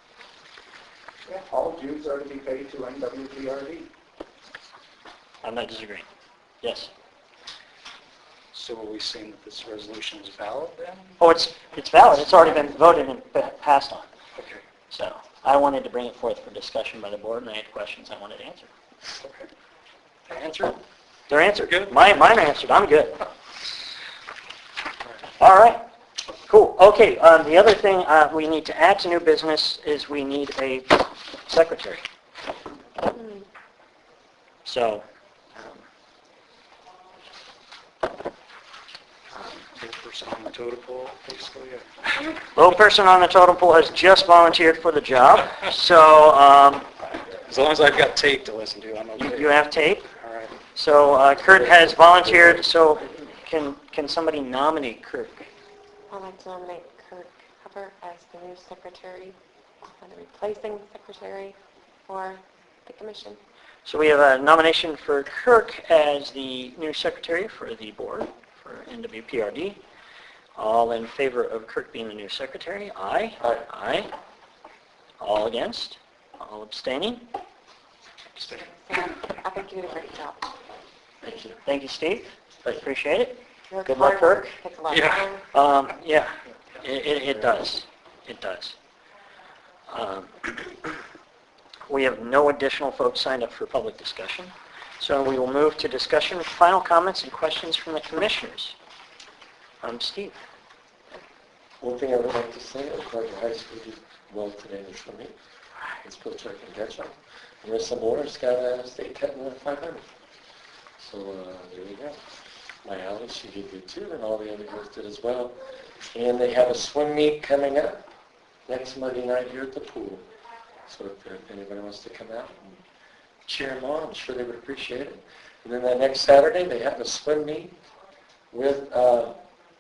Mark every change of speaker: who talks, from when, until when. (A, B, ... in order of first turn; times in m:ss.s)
0:01.3-0:03.9 A
0:05.4-0:06.1 B
0:06.6-0:06.9 B
0:08.5-0:11.2 C
0:11.2-0:14.1 B
0:14.4-0:14.6 C
0:14.9-0:18.7 B
0:19.2-0:19.5 C
0:20.3-0:20.8 C
0:21.3-0:23.3 B
0:21.7-0:22.0 C
0:25.4-0:25.8 B
0:26.5-0:32.0 B
0:33.1-0:33.5 D
0:34.6-0:35.0 B
0:39.5-0:42.4 C
0:42.5-0:46.9 B
0:47.3-0:50.6 C
0:49.2-0:50.1 B
0:50.8-0:55.5 B
0:51.9-0:52.6 E
0:56.1-0:59.4 D
0:59.9-1:01.6 D
1:02.1-1:03.4 D
1:03.9-1:09.8 B
1:10.6-1:14.1 B
1:15.2-1:17.3 B
1:18.4-1:19.4 C
1:18.6-1:20.5 D
1:21.2-1:21.6 E
1:21.6-1:24.6 B
1:23.7-1:25.4 D
1:24.9-1:25.3 C
1:25.5-1:28.7 B
1:29.9-1:31.0 B
1:31.9-1:38.8 B
1:39.8-1:40.4 B
1:41.8-1:45.3 E
1:46.0-1:50.1 E
1:51.0-1:52.2 E
1:52.8-1:58.0 E
1:58.7-2:00.3 E
2:00.9-2:02.8 E
2:03.5-2:07.8 E
2:08.5-2:09.4 E